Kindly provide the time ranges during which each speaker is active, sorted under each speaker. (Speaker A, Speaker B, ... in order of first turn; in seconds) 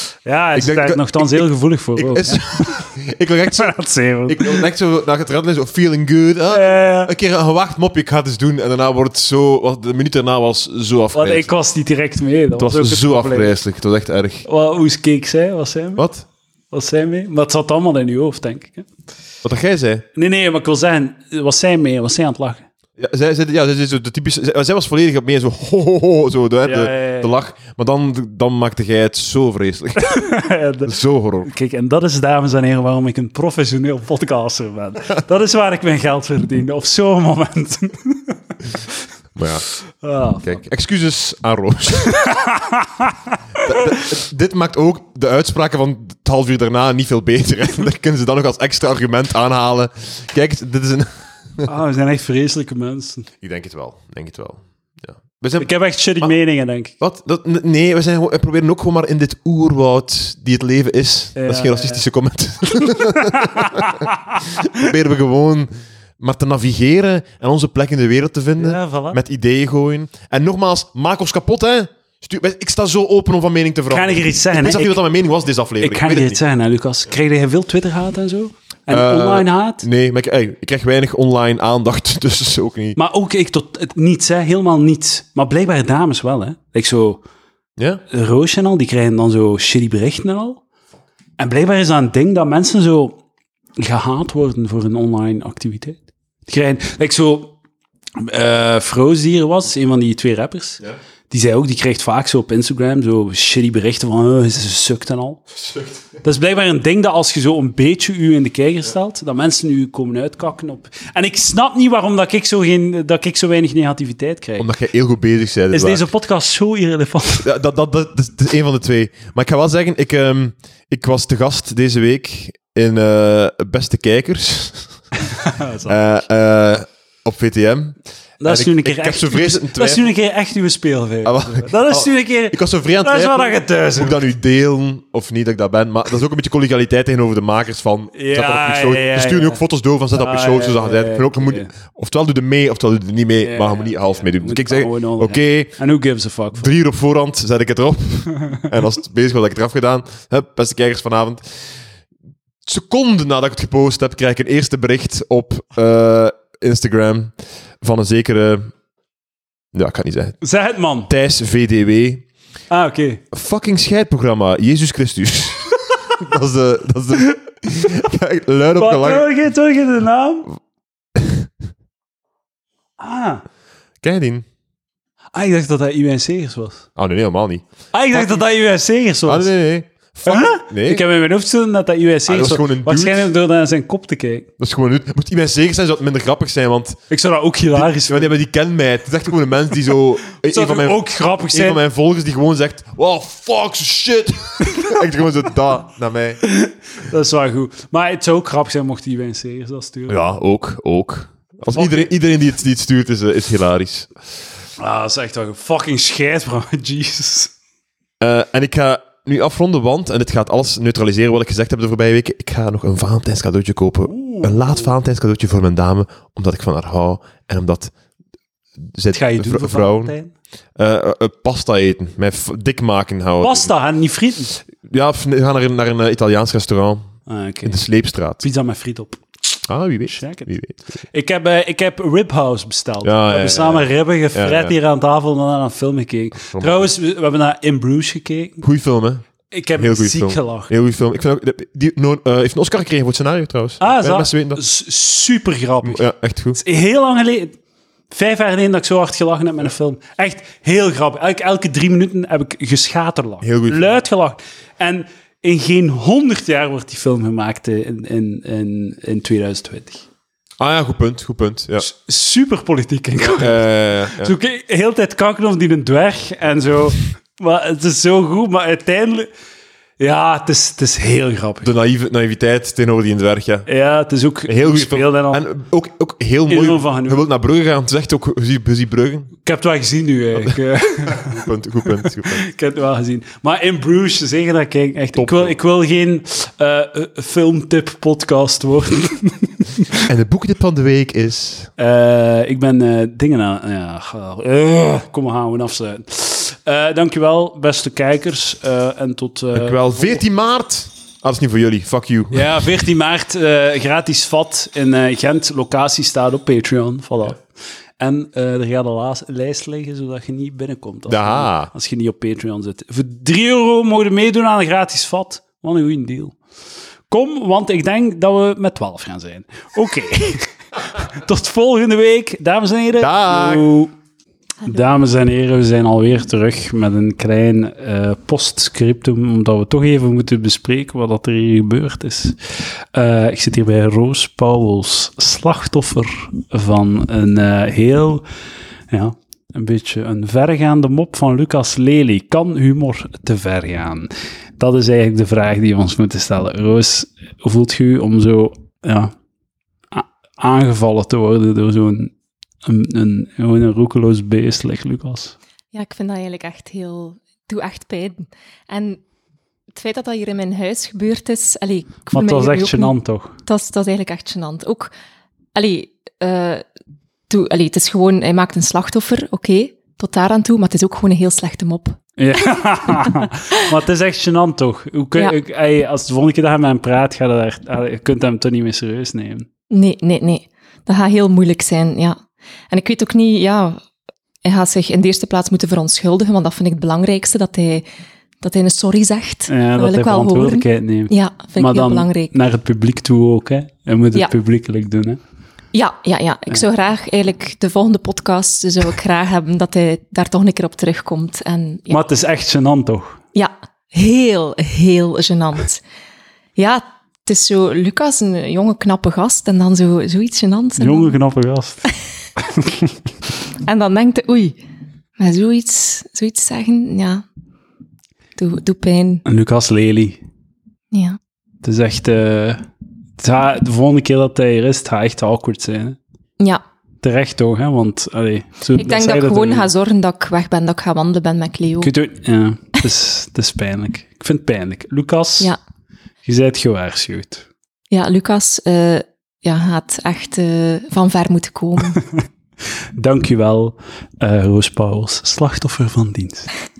Speaker A: 0.2-2.9, 3.5-4.6, 6.5-7.1, 11.1-13.6, 14.4-16.0, 16.7-18.9, 20.1-22.6, 26.6-27.3, 30.0-38.4, 40.0-40.6, 42.1-43.8, 51.6-53.3, 55.6-56.9, 61.4-62.0, 63.0-64.8, 68.6-69.2, 73.9-75.0, 75.8-79.8, 83.0-87.2, 88.1-90.6, 91.4-93.2, 93.8-97.5, 98.2-105.4, 106.2-114.7, 115.7-117.5, 125.2-126.0, 128.4-134.2, 138.1-139.6, 140.1-141.7, 143.4-146.7, 160.4-161.1, 162.7-163.2, 168.8-170.5, 173.0-173.4, 175.3-176.9, 177.9-179.5, 180.3-184.5, 187.1-188.3, 190.5-191.8, 196.4-200.2, 201.7-202.1, 204.8-207.5, 214.0-214.9, 219.1-220.3, 223.4-224.6, 227.3-227.8, 228.4-229.2, 230.1-230.5, 231.1-238.6, 239.5-240.7, 243.8-246.0, 246.6-247.6, 248.1-260.1, 261.8-269.3, 270.0-271.7, 273.6-275.4, 276.5-277.2, 279.4-290.0, 291.8-300.2, 302.3-307.4, 308.0-316.4, 317.1-323.9, 324.6-332.3, 332.9-338.2, 338.9-349.1, 349.9-352.1, 352.6-355.4, 362.1-363.3, 372.2-379.5, 389.5-395.2, 401.9-403.2, 410.8-411.9, 412.4-412.9, 419.2-420.2, 421.6-422.6, 423.2-426.0, 427.0-429.7, 431.8-435.5, 436.2-437.4, 443.0-446.5
Speaker B: 0.6-1.4, 1.9-3.7, 4.3-11.5, 12.6-14.4, 16.0-16.2, 19.4-20.0, 23.0-31.5, 39.4-39.6, 40.4-42.2, 43.6-51.7, 53.4-55.7, 57.0-76.4, 78.9-83.0, 105.5-106.0, 114.6-116.1, 117.4-125.0, 125.8-130.1, 131.2-145.8, 146.5-151.7, 152.6-158.7, 159.7-160.4, 161.1-162.3, 163.3-169.3, 171.2-171.5, 174.0-174.4, 176.9-178.4, 179.2-181.0, 182.3-183.3, 184.6-187.0, 187.7-191.0, 191.5-196.4, 200.1-204.1, 208.2-217.9, 218.8-220.1, 220.8-223.7, 224.8-228.4, 229.7-230.8, 233.0-234.7, 236.3-236.9, 238.6-239.2, 239.8-244.6, 245.8-246.6, 253.4-253.9, 260.6-261.9, 263.2-264.3, 271.6-273.7, 274.5-279.4, 280.4-282.5, 285.1-285.5, 290.0-291.7, 299.5-302.6, 311.1-311.7, 323.0-323.7
Speaker C: 355.7-359.0, 359.7-364.9, 365.5-366.6, 367.3-373.3, 379.7-382.2, 382.7-383.8, 384.4-387.8, 388.4-392.3, 395.7-402.0, 403.3-405.8, 406.6-411.1, 413.6-414.6, 415.2-417.2, 418.4-419.2, 420.9-421.2, 428.7-431.9, 437.9-442.0